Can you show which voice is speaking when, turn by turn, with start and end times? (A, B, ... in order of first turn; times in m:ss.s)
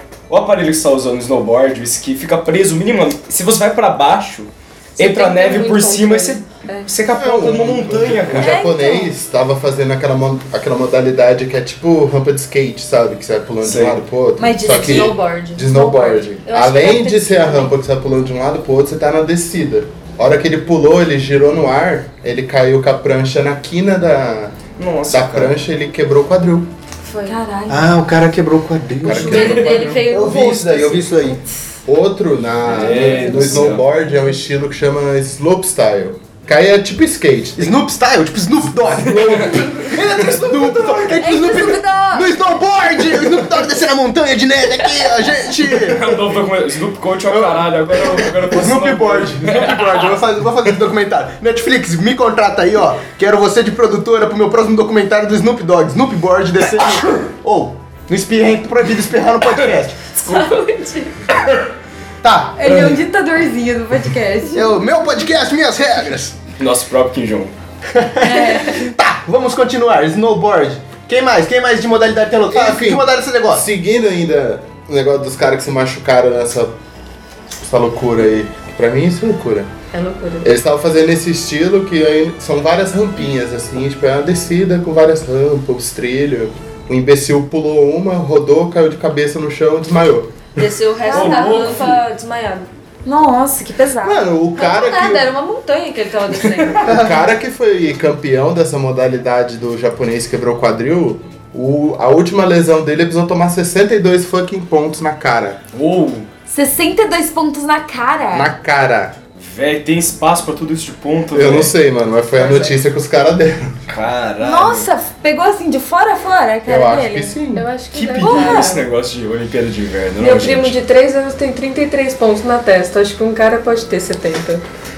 0:00.3-0:08.6 A
0:05.0-0:06.9 B
0:07.1-0:24.6 C
0:08.4-0:09.1 D
0:13.6-0:14.0 A
0:14.4-0:16.2 D
0:14.7-0:15.7 B
0:16.4-0:17.7 B
0:24.8-0:25.6 A
0:25.1-0:26.7 C
0:27.0-0:27.4 B
0:27.3-0:27.9 D
0:27.7-0:31.4 E
0:29.0-0:30.0 C
0:29.1-0:31.3 B
0:29.4-0:30.0 A
0:30.7-0:31.1 C
0:31.9-0:37.8 C
0:32.7-0:33.8 A
0:37.6-0:46.2 E
0:39.0-0:40.0 C
0:39.1-0:40.9 A
0:41.2-0:42.3 D
0:45.6-0:50.2 A
0:47.3-1:00.0 E
1:00.2-1:01.2 B
1:01.3-1:01.6 A
1:02.2-1:02.6 E
1:02.6-1:04.8 D
1:02.7-1:03.0 A
1:04.5-1:06.4 E
1:06.6-1:07.5 A
1:07.9-1:13.6 E
1:08.2-1:08.9 D
1:12.5-1:16.7 C
1:17.6-1:19.7 C
1:19.9-1:20.5 B
1:20.4-1:30.5 C
1:30.6-1:32.7 B
1:31.0-1:31.8 D
1:31.1-1:32.0 A
1:33.0-1:34.2 D
1:34.0-1:35.3 C
1:34.6-1:37.0 B
1:36.4-1:36.8 A
1:36.8-1:45.6 C
1:36.9-1:37.2 E
1:45.7-1:46.3 A
1:46.5-1:48.5 D
1:48.3-1:49.2 C
1:49.4-1:51.7 A
1:51.3-1:53.8 C
1:52.4-1:52.7 B
1:53.9-1:54.9 A
1:54.4-1:57.3 D
1:56.7-1:57.7 C
1:57.5-1:58.8 B
1:57.9-2:00.8 A
1:58.2-1:58.8 D
2:00.2-2:04.6 B